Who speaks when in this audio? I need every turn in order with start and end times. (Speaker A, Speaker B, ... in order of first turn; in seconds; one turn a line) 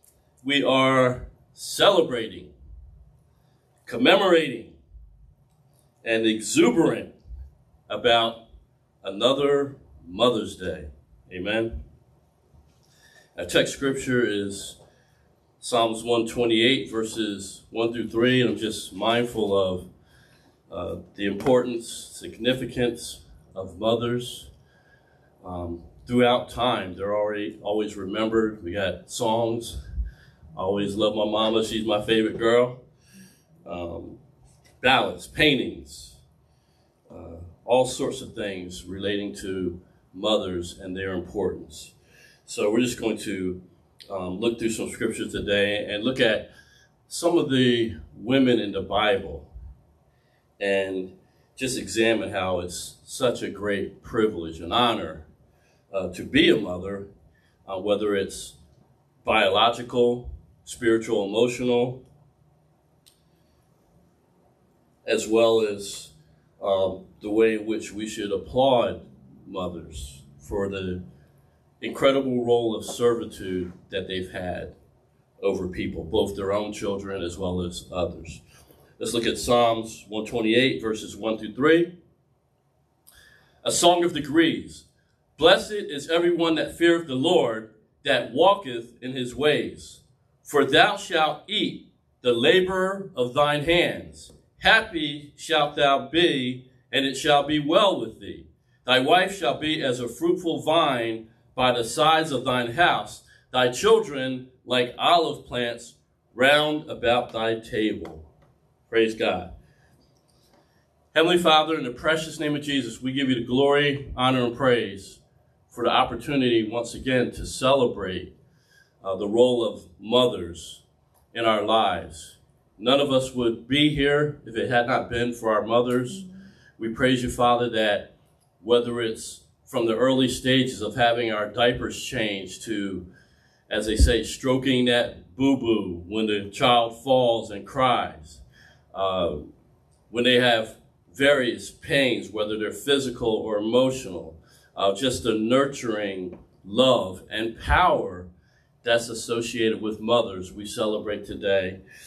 Speaker A: 0.4-2.5
Speaker A: 3.9-4.8
Speaker A: 6.0-7.1
Speaker A: 7.9-8.4
Speaker A: 9.0-11.7
Speaker A: 13.3-14.8
Speaker A: 15.6-19.8
Speaker A: 20.7-24.5
Speaker A: 25.4-29.8
Speaker A: 30.6-32.8
Speaker A: 33.6-34.2
Speaker A: 34.8-36.2
Speaker A: 37.1-41.9
Speaker A: 42.5-43.6
Speaker A: 44.1-46.5
Speaker A: 47.1-49.5
Speaker A: 50.6-55.2
Speaker A: 55.9-57.1
Speaker A: 57.7-58.5
Speaker A: 59.2-62.0
Speaker A: 65.0-71.0
Speaker A: 71.8-74.7
Speaker A: 75.4-78.4
Speaker A: 79.0-81.9
Speaker A: 83.6-84.9
Speaker A: 85.4-108.3
Speaker A: 108.9-109.5
Speaker A: 111.1-118.3
Speaker A: 119.0-126.2
Speaker A: 126.8-128.1
Speaker A: 128.6-133.1
Speaker A: 133.7-138.4
Speaker A: 138.9-139.5
Speaker A: 140.1-148.3
Speaker A: 148.8-151.8